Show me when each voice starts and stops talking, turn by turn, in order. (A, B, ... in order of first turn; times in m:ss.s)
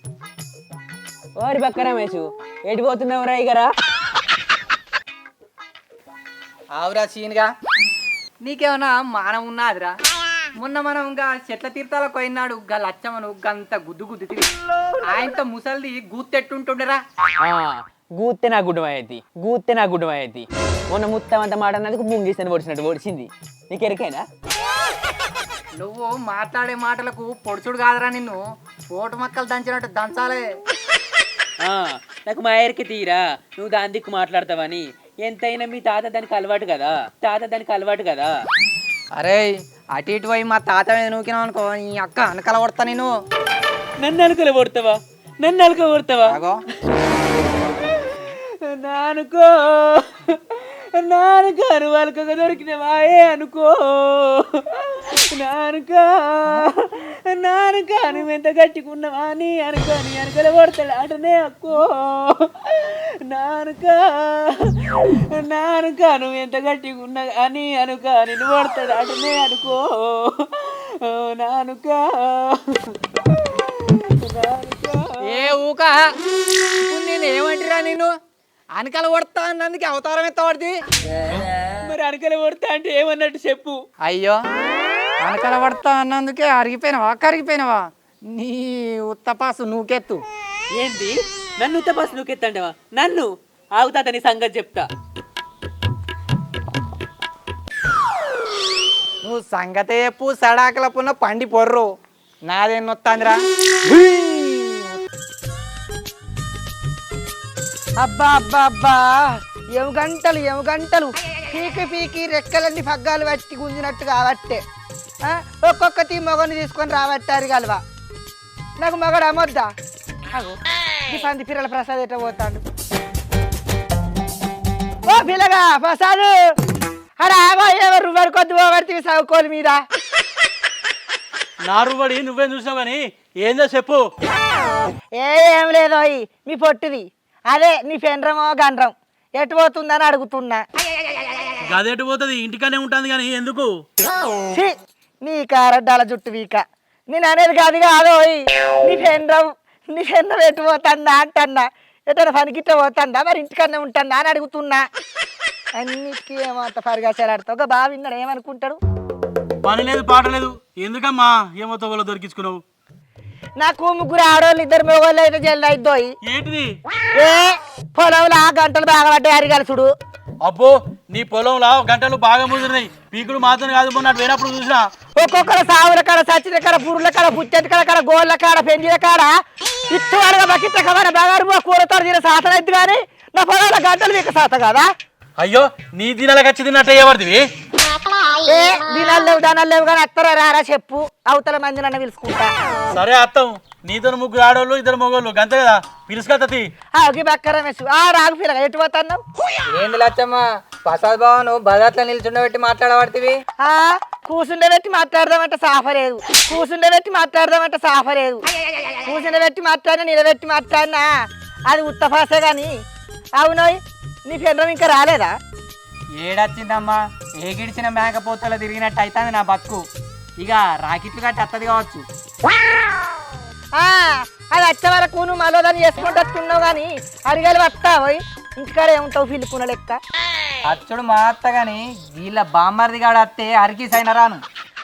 0:01.4-0:03.7 A
0:06.7-0:07.5 B
0:08.4-0:10.0 B
0:10.6-0:14.5 B
0:15.1-0:17.0 B
0:17.4-0:24.2 A
0:25.8-0:30.6 B
0:31.6-0:38.3 A
0:39.2-0:43.1 B
0:44.0-0:46.4 A
0:46.2-0:46.6 B
0:48.1-1:13.0 A
1:13.6-1:15.6 A
1:15.2-1:16.1 B
1:16.9-1:18.1 B
1:18.8-1:20.8 B
1:21.8-1:23.8 A
1:24.0-1:24.4 B
1:25.2-1:30.2 B
1:30.7-1:34.9 A
1:39.2-1:41.9 B
1:42.5-1:45.0 B
1:48.0-1:54.6 C
1:55.3-1:57.8 C
1:58.8-1:59.7 C
2:01.1-2:02.6 C
2:05.1-2:06.4 C
2:07.2-2:09.8 C
2:11.7-2:14.0 D
2:15.2-2:20.6 C
2:21.7-2:23.7 D
2:25.2-2:34.8 C
2:35.8-2:38.8 C
2:39.6-2:42.6 D
2:43.6-2:46.1 C
2:46.3-2:46.7 D
2:47.2-2:49.9 C
2:50.4-2:54.9 D
2:55.2-2:59.4 C
2:59.9-3:04.9 C
3:05.4-3:07.4 D
3:08.5-3:12.5 C
3:12.9-3:16.7 D
3:17.0-3:19.2 C
3:19.7-3:23.4 B
3:23.6-3:28.4 C
3:29.0-3:31.1 C
3:31.7-3:32.7 C
3:33.4-3:35.3 C
3:36.2-3:39.8 B
3:40.4-3:42.0 B
3:43.8-3:50.0 C
3:50.6-3:54.4 B